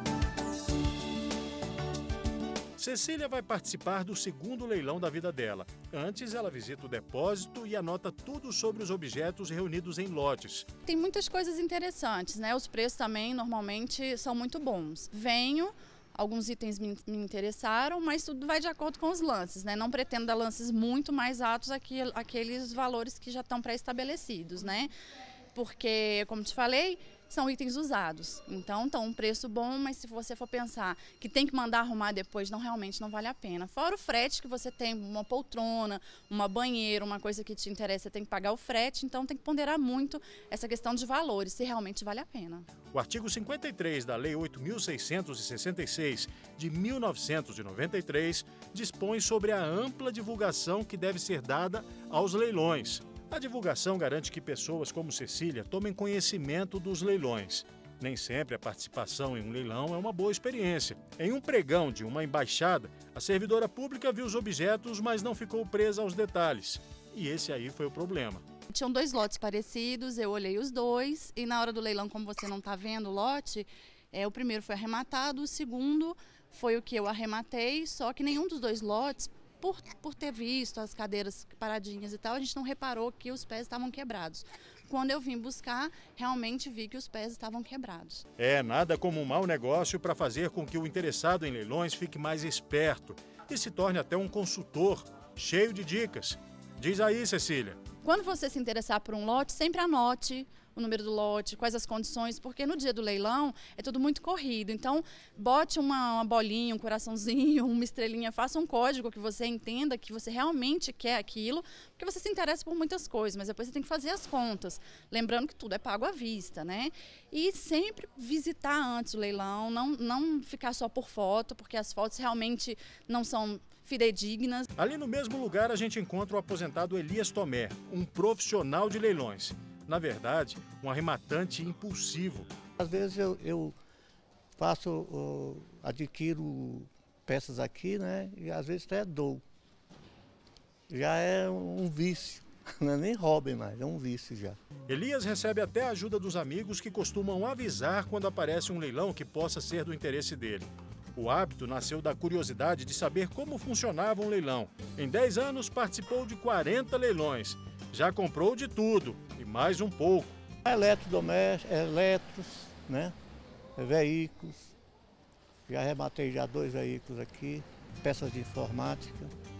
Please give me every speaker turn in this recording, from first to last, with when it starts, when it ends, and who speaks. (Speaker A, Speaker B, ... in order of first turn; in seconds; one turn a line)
Speaker A: 2.8-10.7
Speaker B: 10.8-24.9
Speaker B: 25.5-42.7
Speaker A: 42.9-68.4
Speaker B: 68.7-88.2
Speaker A: 88.4-97.8
Speaker B: 98.0-124.6
Speaker A: 124.8-132.5
Speaker C: 132.8-133.7
Speaker C: 134.6-139.4
Speaker C: 140.9-144.6
Speaker A: 144.9-160.3
Speaker C: 160.6-163.1
Speaker C: 163.8-164.7
Speaker C: 165.7-169.3